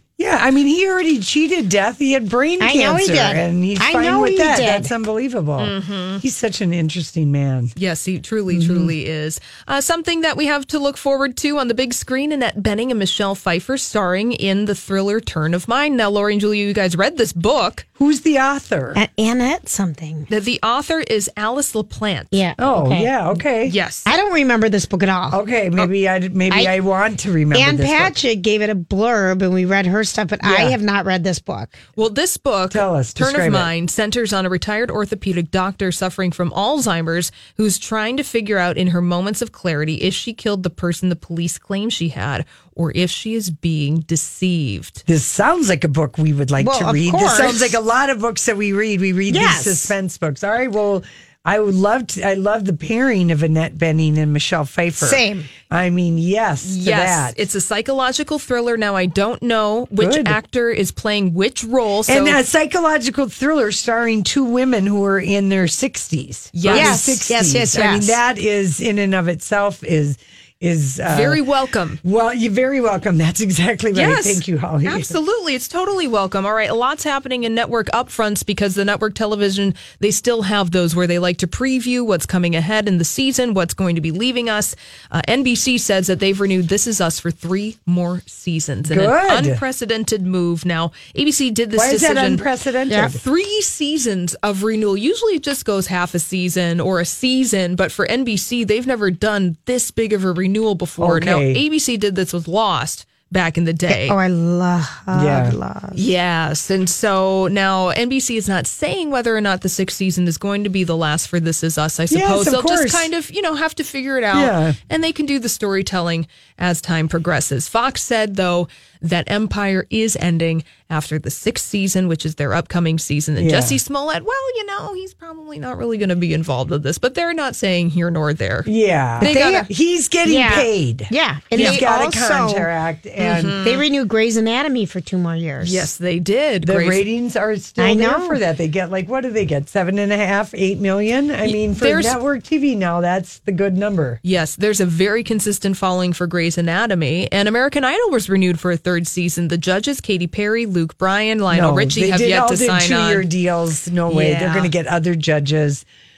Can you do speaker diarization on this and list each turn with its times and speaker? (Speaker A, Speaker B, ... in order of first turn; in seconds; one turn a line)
Speaker A: 0.2-7.8
Speaker B: 2.6-4.9
Speaker C: 5.6-6.2
Speaker C: 7.8-17.9
Speaker A: 8.5-8.9
Speaker A: 18.0-19.0
Speaker B: 18.9-20.3
Speaker C: 20.3-22.3
Speaker B: 22.3-23.1
Speaker A: 22.6-23.8
Speaker C: 23.6-24.1
Speaker B: 24.1-25.4
Speaker A: 25.3-28.1
Speaker B: 27.5-31.8
Speaker A: 30.4-30.8
Speaker C: 32.0-45.0
Speaker A: 32.7-33.7
Speaker A: 45.1-57.4
Speaker B: 46.6-47.8
Speaker B: 49.3-49.9
Speaker B: 55.0-55.5
Speaker C: 56.6-62.4
Speaker A: 60.0-60.4
Speaker A: 62.1-71.4
Speaker C: 66.5-67.2
Speaker B: 66.7-68.2
Speaker C: 71.1-72.0
Speaker A: 72.0-75.1
Speaker C: 73.9-92.4
Speaker A: 88.9-89.6
Speaker A: 91.8-93.2
Speaker B: 92.9-93.1
Speaker C: 93.1-104.2
Speaker A: 101.0-101.6
Speaker B: 103.9-106.0
Speaker A: 105.1-105.6
Speaker C: 105.9-128.7
Speaker A: 112.1-113.1
Speaker A: 114.3-114.8
Speaker A: 123.4-123.8
Speaker A: 128.6-133.6
Speaker C: 129.2-129.7
Speaker B: 129.2-129.7
Speaker B: 130.2-132.7
Speaker C: 131.6-131.8
Speaker C: 133.2-133.8
Speaker B: 133.6-135.9
Speaker C: 135.6-137.1
Speaker A: 136.6-144.2
Speaker B: 137.8-138.4
Speaker C: 141.4-142.2
Speaker C: 144.2-153.3
Speaker A: 151.5-155.8
Speaker C: 154.1-154.7